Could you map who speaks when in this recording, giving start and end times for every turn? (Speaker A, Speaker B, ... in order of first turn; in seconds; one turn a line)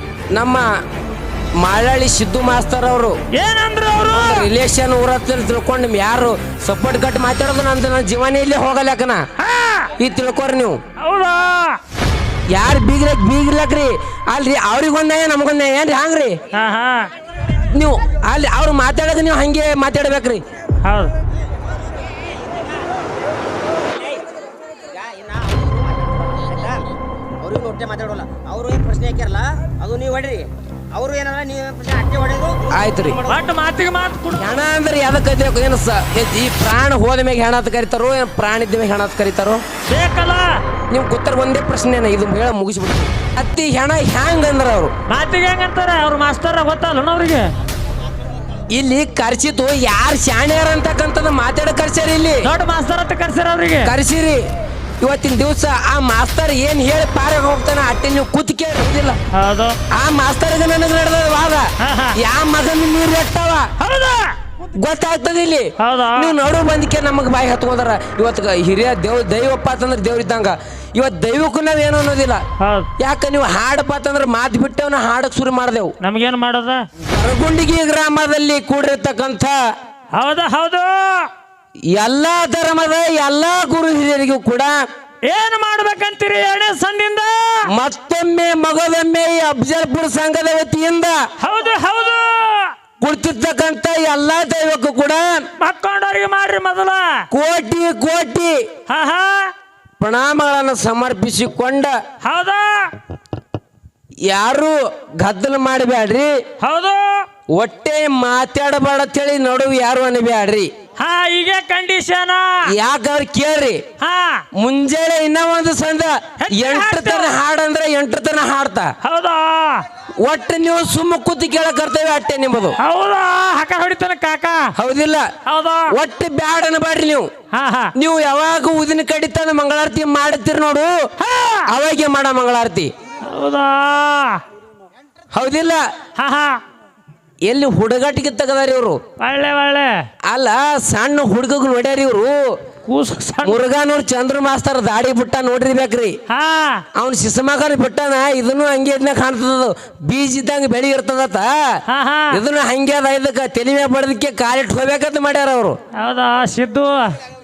Speaker A: 0.3-0.7
Speaker A: 1.6-3.2
Speaker B: 3.3-4.5
Speaker A: 4.1-9.3
Speaker B: 9.4-9.9
Speaker A: 10.0-10.8
Speaker B: 11.0-11.8
Speaker A: 12.5-16.4
Speaker B: 16.5-17.1
Speaker A: 17.6-20.4
Speaker B: 20.8-21.1
Speaker C: 24.0-24.2
Speaker C: 24.9-33.4
Speaker A: 32.7-33.2
Speaker B: 33.3-34.6
Speaker A: 34.4-39.6
Speaker B: 39.9-40.6
Speaker A: 40.9-44.9
Speaker B: 45.1-47.5
Speaker A: 48.7-52.5
Speaker B: 52.5-53.9
Speaker A: 53.8-54.4
Speaker A: 55.0-59.2
Speaker B: 59.3-59.8
Speaker A: 59.9-63.7
Speaker B: 61.8-62.2
Speaker B: 63.8-64.4
Speaker A: 64.8-72.4
Speaker B: 65.8-66.3
Speaker B: 72.6-72.9
Speaker A: 73.0-75.9
Speaker B: 76.0-76.9
Speaker A: 77.0-79.6
Speaker B: 80.1-81.3
Speaker A: 81.9-84.8
Speaker B: 85.2-87.7
Speaker A: 87.7-91.2
Speaker B: 91.4-92.7
Speaker A: 93.0-95.5
Speaker B: 95.6-97.2
Speaker A: 97.3-98.6
Speaker B: 98.9-99.5
Speaker A: 100.0-102.0
Speaker B: 102.2-102.9
Speaker A: 104.3-106.3
Speaker B: 106.6-107.3
Speaker A: 107.5-110.7
Speaker B: 111.0-112.6
Speaker A: 112.7-113.8
Speaker B: 114.0-114.5
Speaker A: 114.6-118.9
Speaker B: 116.4-117.3
Speaker B: 119.0-119.9
Speaker A: 120.2-122.8
Speaker B: 122.8-124.7
Speaker A: 124.8-125.3
Speaker B: 125.5-125.9
Speaker A: 125.9-127.3
Speaker B: 127.5-127.9
Speaker A: 128.0-130.9
Speaker B: 131.2-131.7
Speaker A: 131.7-132.9
Speaker B: 133.2-134.4
Speaker A: 135.3-135.8
Speaker B: 136.2-136.6
Speaker A: 137.5-139.0
Speaker B: 139.2-140.0
Speaker A: 140.3-142.5
Speaker B: 142.9-143.6
Speaker A: 143.4-146.2
Speaker B: 146.3-146.8
Speaker A: 147.0-151.8
Speaker B: 151.9-152.4
Speaker A: 152.3-155.8
Speaker B: 155.9-157.2